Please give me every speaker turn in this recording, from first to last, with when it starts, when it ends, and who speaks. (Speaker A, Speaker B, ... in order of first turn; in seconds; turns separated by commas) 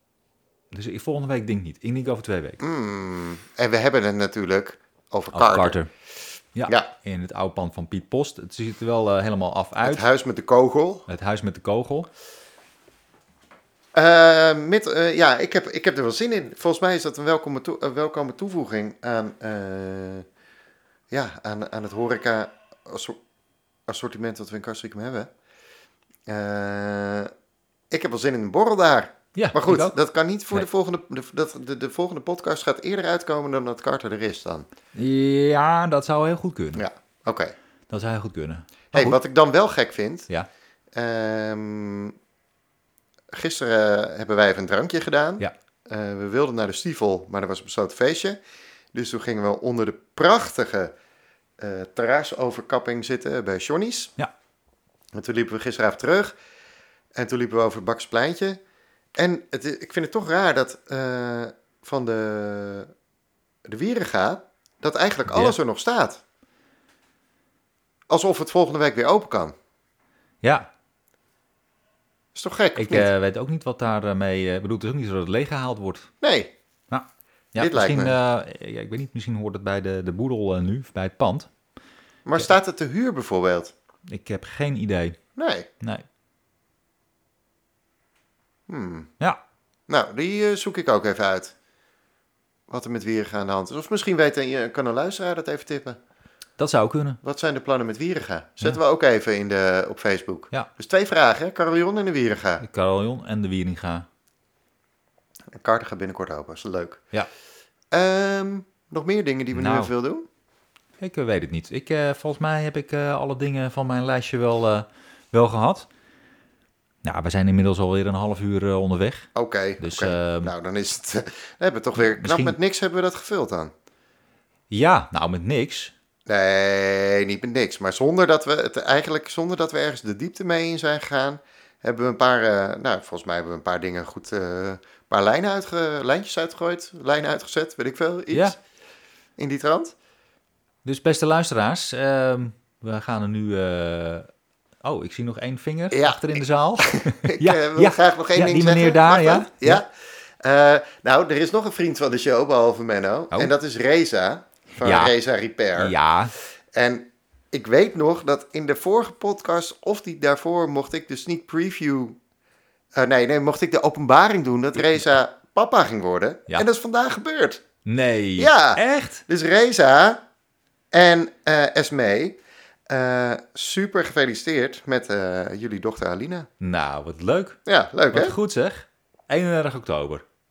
Speaker A: 0.7-2.6, Speaker B: 2.6-5.8, Speaker A: 5.3-5.9, Speaker A: 6.5-10.1, Speaker B: 9.8-11.1, Speaker A: 11.1-12.1, Speaker B: 13.9-20.2, Speaker B: 21.1-23.2, Speaker B: 23.9-25.3, Speaker B: 26.3-27.3, Speaker B: 27.9-34.7, Speaker A: 29.4-29.9, Speaker A: 34.9-36.8, Speaker B: 36.8-37.5, Speaker A: 37.9-39.2, Speaker B: 38.9-40.3, Speaker B: 41.0-42.1, Speaker B: 43.3-48.4, Speaker B: 48.9-50.9, Speaker B: 51.6-54.1, Speaker B: 55.1-56.3, Speaker B: 57.1-58.6, Speaker B: 59.2-62.9, Speaker B: 63.7-66.2, Speaker A: 65.3-65.6, Speaker B: 68.1-69.5, Speaker A: 70.4-70.7, Speaker B: 72.3-73.1, Speaker A: 72.8-76.1, Speaker B: 76.2-76.5, Speaker A: 76.9-81.5, Speaker B: 77.6-78.2, Speaker B: 82.3-83.7, Speaker A: 84.1-85.2, Speaker B: 85.4-85.7, Speaker B: 88.7-89.1, Speaker B: 89.9-91.5, Speaker B: 92.7-96.0, Speaker A: 96.6-97.2, Speaker B: 97.2-102.7, Speaker A: 102.6-104.1, Speaker B: 105.5-107.0, Speaker B: 107.9-110.3, Speaker A: 109.5-109.9, Speaker A: 111.0-115.9, Speaker A: 117.0-120.5, Speaker B: 119.3-123.7, Speaker A: 122.0-122.6, Speaker A: 124.7-125.9, Speaker B: 126.3-138.6, Speaker B: 139.4-139.9, Speaker A: 140.8-144.3, Speaker A: 144.8-149.8, Speaker B: 145.9-155.9, Speaker A: 154.8-155.2, Speaker A: 155.8-156.3, Speaker B: 156.8-162.2, Speaker B: 163.0-167.6, Speaker A: 167.9-169.2, Speaker B: 168.4-170.2, Speaker B: 170.9-172.4, Speaker B: 172.9-176.5, Speaker A: 176.6-177.6, Speaker B: 177.7-178.3, Speaker A: 178.1-180.2